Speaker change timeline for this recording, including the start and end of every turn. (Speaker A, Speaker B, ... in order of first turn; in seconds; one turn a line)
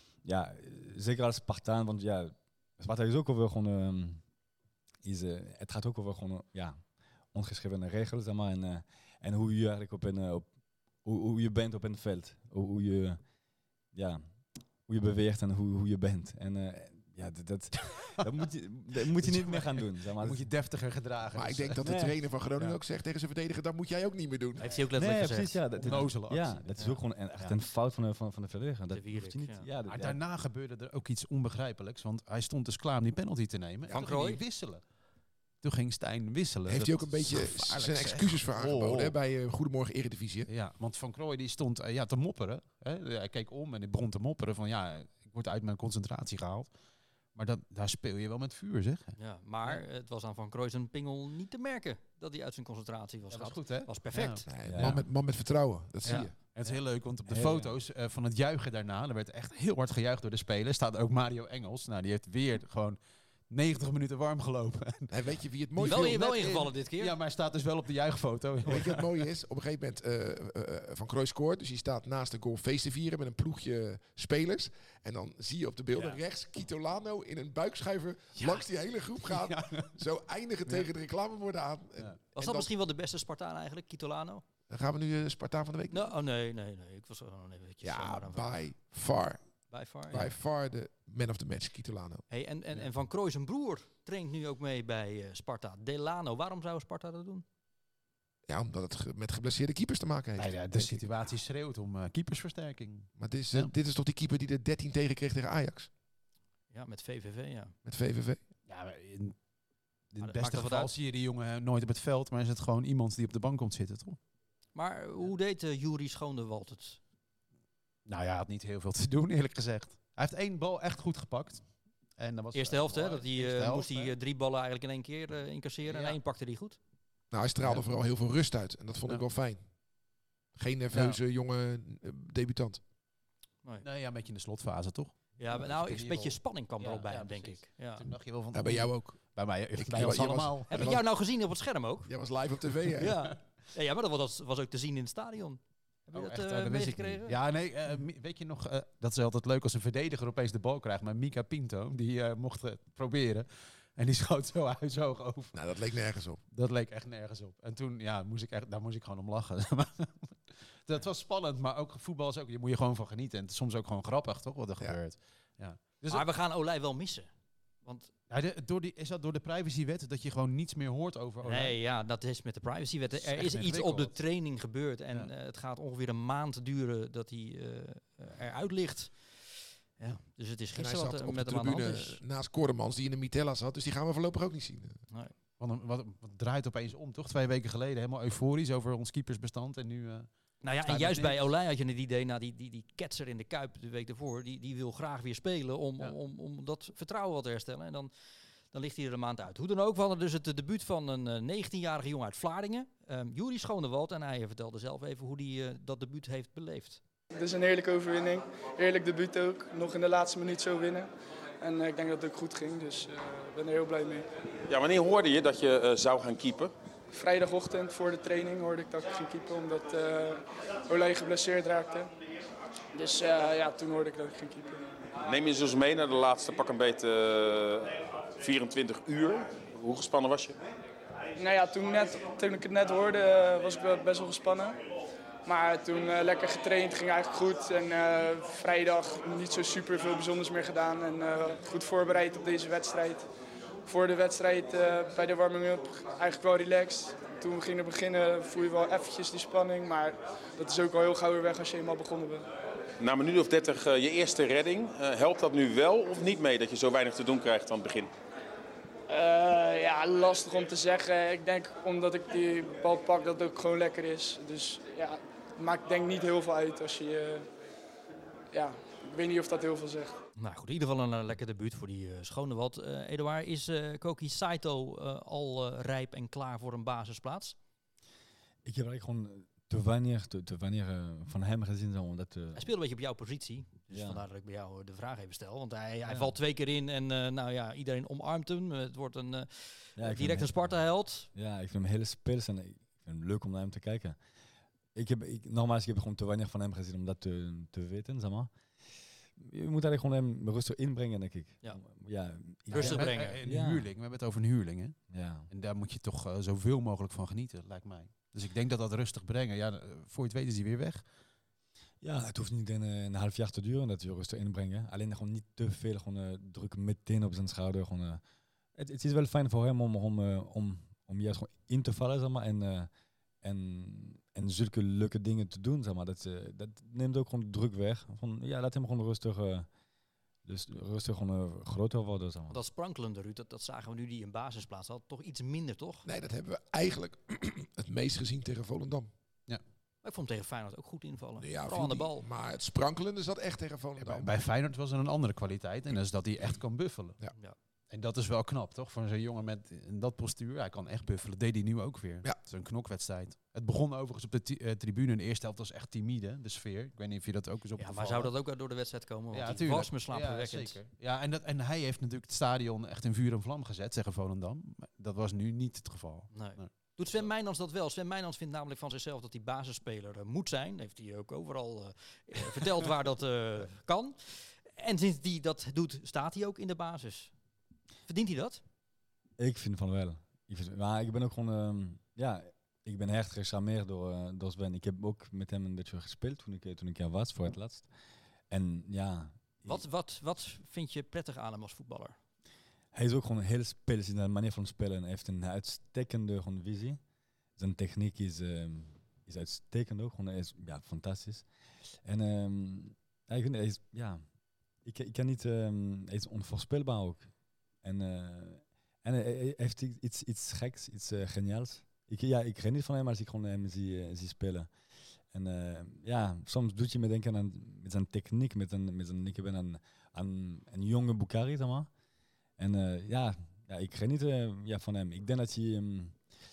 Speaker A: 0.2-4.2
Speaker A: 5.0-6.8
Speaker A: 7.3-10.5
Speaker A: 11.0-13.2
Speaker A: 13.9-14.2
Speaker A: 14.9-20.5
Speaker B: 19.2-22.8
Speaker C: 21.3-24.8
Speaker A: 21.8-22.1
Speaker D: 24.6-25.9
Speaker A: 24.9-30.2
Speaker B: 25.8-26.8
Speaker D: 28.9-29.7
Speaker B: 29.9-34.8
Speaker D: 33.9-34.4
Speaker B: 35.6-39.2
Speaker C: 36.7-40.5
Speaker B: 40.5-46.7
Speaker B: 47.3-49.8
Speaker D: 49.2-54.5
Speaker B: 53.3-55.0
Speaker C: 54.5-56.4
Speaker A: 54.6-55.0
Speaker B: 56.0-63.0
Speaker D: 56.0-56.3
Speaker A: 57.3-57.7
Speaker B: 63.5-65.3
Speaker C: 65.1-66.1
Speaker D: 65.8-67.2
Speaker B: 65.8-69.3
Speaker C: 68.6-82.7
Speaker B: 78.4-78.7
Speaker B: 79.2-79.9
Speaker D: 82.3-84.4
Speaker C: 84.7-86.1
Speaker D: 85.9-88.5
Speaker C: 87.8-89.4
Speaker D: 89.7-90.2
Speaker C: 90.1-92.2
Speaker D: 92.3-97.4
Speaker C: 98.5-101.1
Speaker B: 100.4-103.7
Speaker C: 103.2-105.9
Speaker D: 106.7-107.7
Speaker C: 107.8-108.4
Speaker B: 108.7-109.4
Speaker B: 110.1-114.2
Speaker D: 110.2-110.9
Speaker D: 114.7-117.0
Speaker B: 118.0-124.1
Speaker D: 122.5-126.8
Speaker B: 125.9-126.2
Speaker C: 127.3-129.6
Speaker B: 127.6-127.9
Speaker C: 130.5-132.8
Speaker B: 130.9-131.2
Speaker B: 133.8-141.0
Speaker D: 135.4-138.0
Speaker C: 138.5-141.0
Speaker D: 140.7-142.1
Speaker C: 142.1-143.3
Speaker D: 143.0-147.3
Speaker B: 146.1-155.6
Speaker C: 155.5-156.4
Speaker B: 156.5-166.2
Speaker D: 166.1-167.3
Speaker D: 167.8-168.1
Speaker B: 168.3-171.8
Speaker D: 171.4-182.2
Speaker B: 173.1-174.2
Speaker C: 180.7-185.0
Speaker B: 185.6-190.3
Speaker D: 190.6-198.1
Speaker B: 190.8-191.5
Speaker D: 198.7-207.0
Speaker E: 207.3-211.1
Speaker E: 211.6-214.2
Speaker F: 214.7-216.7
Speaker E: 217.1-222.1
Speaker E: 222.9-224.9
Speaker F: 225.2-230.6
Speaker E: 231.4-234.8
Speaker E: 235.4-243.2
Speaker E: 243.8-252.4
Speaker F: 253.0-258.1
Speaker E: 259.1-267.5
Speaker E: 268.5-270.2
Speaker D: 270.4-277.6
Speaker A: 278.6-282.7
Speaker D: 282.5-291.3
Speaker A: 283.9-284.2
Speaker A: 286.1-286.3
Speaker A: 290.0-290.8
Speaker A: 291.3-294.2
Speaker A: 294.9-298.5
Speaker A: 299.4-303.9
Speaker D: 302.7-303.4
Speaker B: 302.7-305.0
Speaker A: 305.1-305.5
Speaker B: 305.5-311.0
Speaker A: 312.0-318.2
Speaker A: 318.8-322.9
Speaker A: 323.4-329.7
Speaker A: 330.4-332.6
Speaker D: 332.5-336.1
Speaker C: 336.0-339.1
Speaker D: 340.0-342.2
Speaker C: 341.4-344.3
Speaker B: 344.0-347.2
Speaker B: 347.9-358.3
Speaker D: 357.8-360.8
Speaker B: 359.3-367.3
Speaker D: 366.3-377.3
Speaker D: 378.1-378.6
Speaker A: 379.4-387.9
Speaker A: 388.5-389.8
Speaker D: 389.6-392.1
Speaker A: 392.9-397.0
Speaker A: 397.6-401.4
Speaker A: 402.0-404.2
Speaker A: 404.8-407.3
Speaker A: 407.8-414.7
Speaker A: 415.3-421.9
Speaker A: 422.6-426.2